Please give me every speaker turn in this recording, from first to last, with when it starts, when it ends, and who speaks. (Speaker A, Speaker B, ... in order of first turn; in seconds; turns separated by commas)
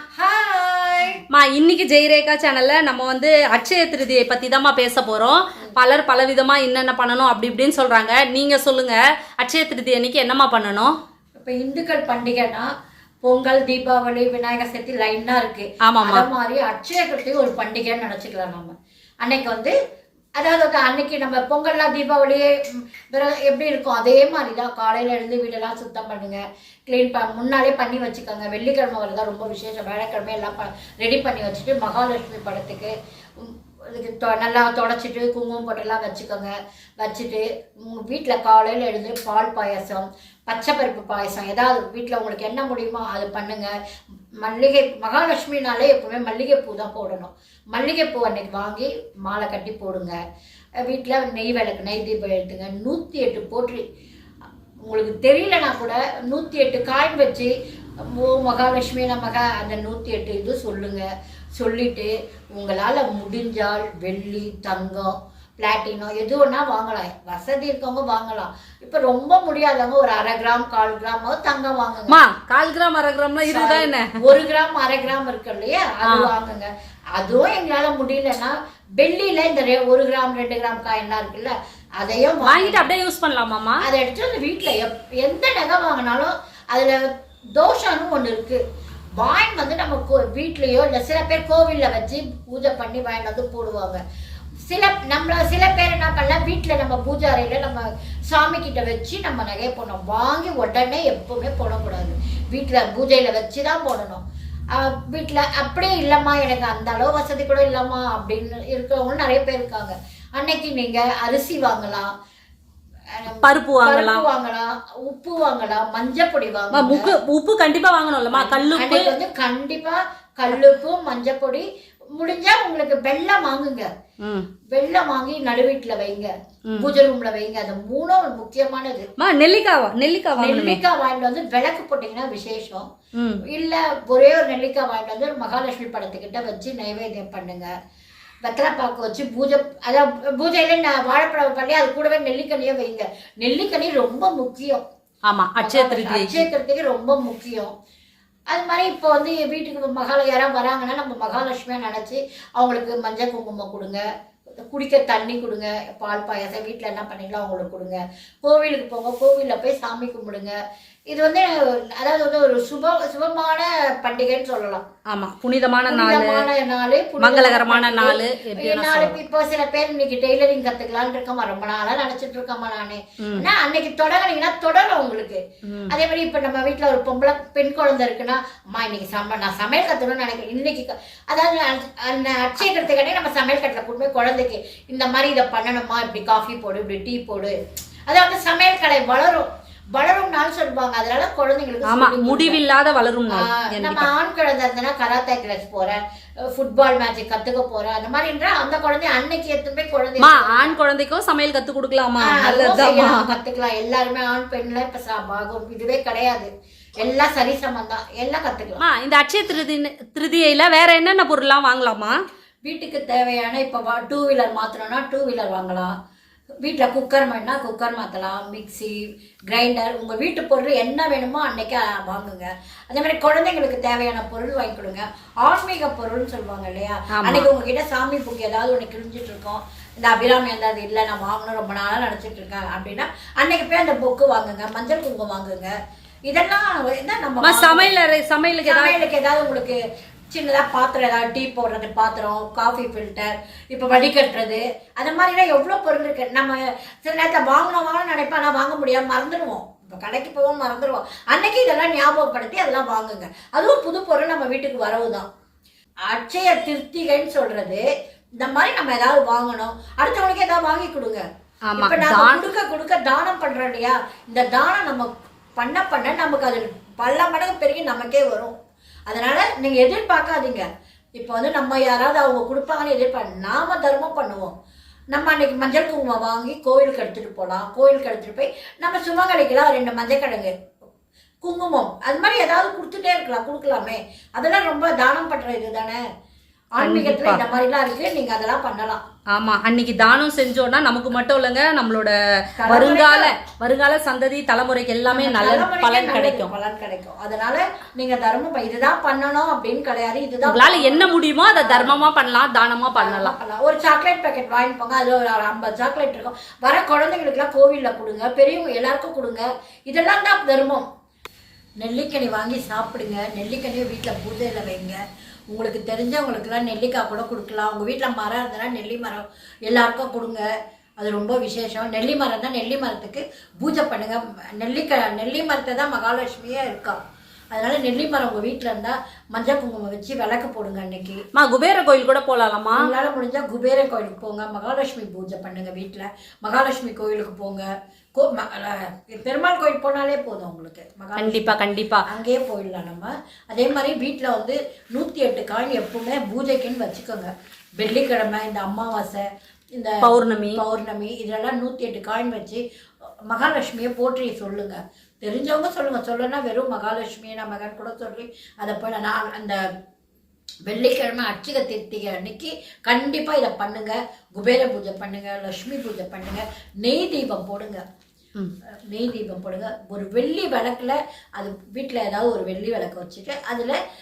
Speaker A: 0.2-1.2, Speaker B: 1.3-10.9, Speaker A: 11.4-12.7, Speaker A: 13.2-19.7, Speaker B: 15.9-16.3, Speaker A: 20.4-22.5, Speaker A: 23.1-43.7, Speaker A: 44.4-50.1, Speaker A: 50.9-53.8, Speaker A: 54.8-57.5, Speaker A: 58.2-61.0, Speaker A: 61.6-72.2, Speaker B: 72.1-74.1, Speaker A: 73.5-82.9, Speaker B: 82.5-83.8, Speaker A: 83.8-88.6, Speaker A: 89.2-94.0, Speaker A: 94.7-112.1, Speaker A: 113.2-117.1, Speaker B: 113.4-114.2, Speaker B: 116.7-119.1, Speaker A: 118.3-121.7, Speaker A: 122.2-123.9, Speaker A: 124.7-129.1, Speaker B: 129.2-130.8, Speaker A: 130.4-132.8, Speaker A: 133.5-137.7, Speaker A: 138.4-144.8, Speaker B: 145.2-146.5, Speaker A: 145.6-147.7, Speaker A: 148.5-154.0, Speaker A: 154.7-160.6, Speaker A: 161.1-164.8, Speaker B: 165.1-166.4, Speaker A: 165.9-187.5, Speaker B: 167.2-169.2, Speaker B: 175.7-175.9, Speaker A: 188.1-192.6, Speaker B: 191.9-194.1, Speaker A: 193.3-196.0, Speaker A: 196.5-200.8, Speaker B: 200.2-203.3, Speaker A: 202.2-208.8, Speaker B: 208.8-212.1, Speaker A: 212.7-215.9, Speaker A: 216.6-218.9, Speaker A: 219.5-235.7, Speaker B: 227.2-227.5, Speaker A: 236.3-237.9, Speaker B: 237.4-239.0, Speaker A: 238.7-239.8, Speaker A: 240.3-255.3, Speaker A: 256.1-257.8, Speaker A: 258.4-261.2, Speaker B: 261.7-262.4, Speaker A: 261.8-268.5, Speaker A: 269.1-270.6, Speaker A: 271.2-274.5, Speaker A: 275.1-280.5, Speaker A: 281.4-286.0, Speaker A: 286.8-289.0, Speaker B: 286.8-287.4, Speaker B: 289.3-296.5, Speaker A: 292.6-293.3, Speaker A: 295.1-302.0, Speaker B: 300.5-303.3, Speaker A: 302.9-310.9, Speaker A: 311.8-315.0, Speaker A: 315.5-320.4, Speaker A: 321.0-327.0, Speaker A: 327.5-331.2, Speaker B: 331.3-332.8, Speaker A: 332.8-337.6, Speaker A: 338.2-341.5, Speaker B: 341.2-342.0, Speaker A: 342.1-349.2, Speaker A: 349.8-352.6, Speaker B: 350.0-350.6, Speaker A: 353.3-359.6, Speaker A: 360.7-367.8, Speaker A: 368.9-373.8